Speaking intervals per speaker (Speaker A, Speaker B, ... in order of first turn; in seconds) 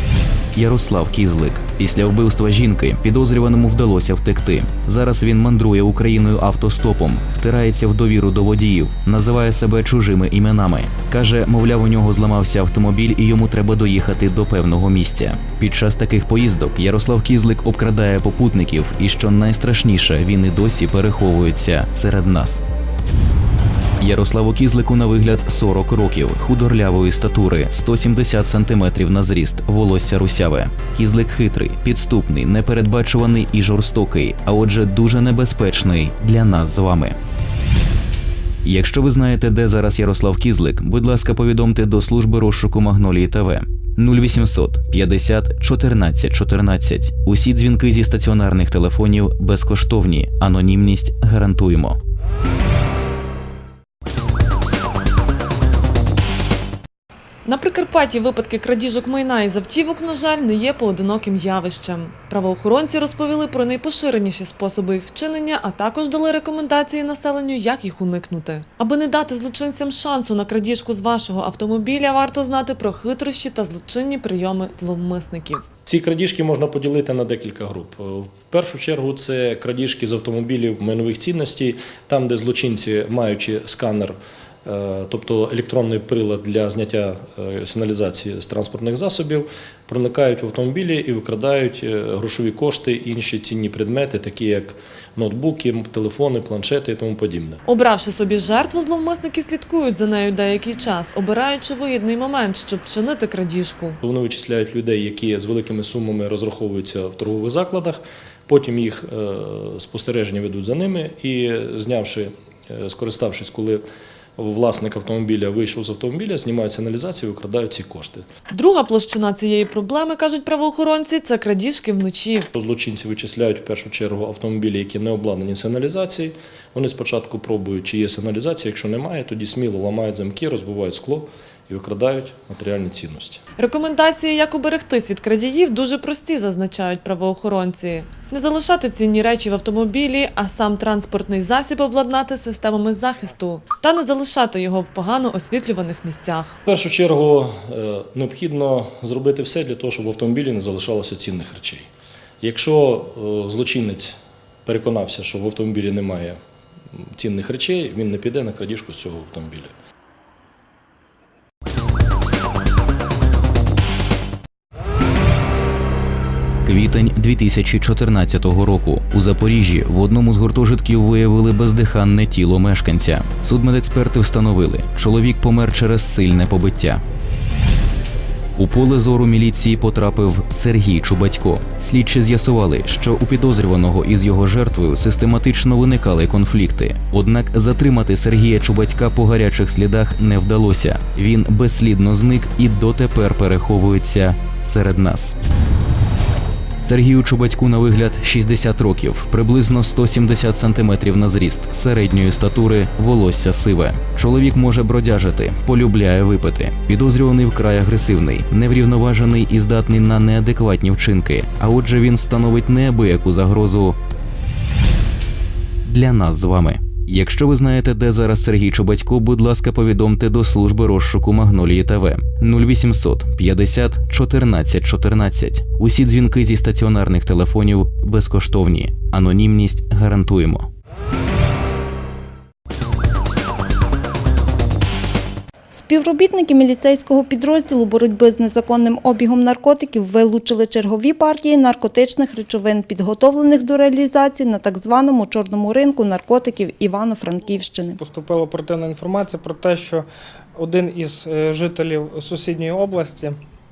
Speaker A: 0.6-22.6, 24.0-37.1, 38.6-52.0, 166.7-177.0, 178.6-195.3, 196.8-213.9, 215.8-230.7
Speaker B: 57.4-75.6, 97.7-104.0, 118.5-122.5, 133.6-146.6
Speaker C: 75.8-97.6, 104.0-113.8, 114.4-118.2, 122.5-133.4, 146.7-151.9, 152.4-156.4, 157.2-159.7
Speaker D: 235.7-247.9
Speaker E: 248.0-250.0, 250.6-253.3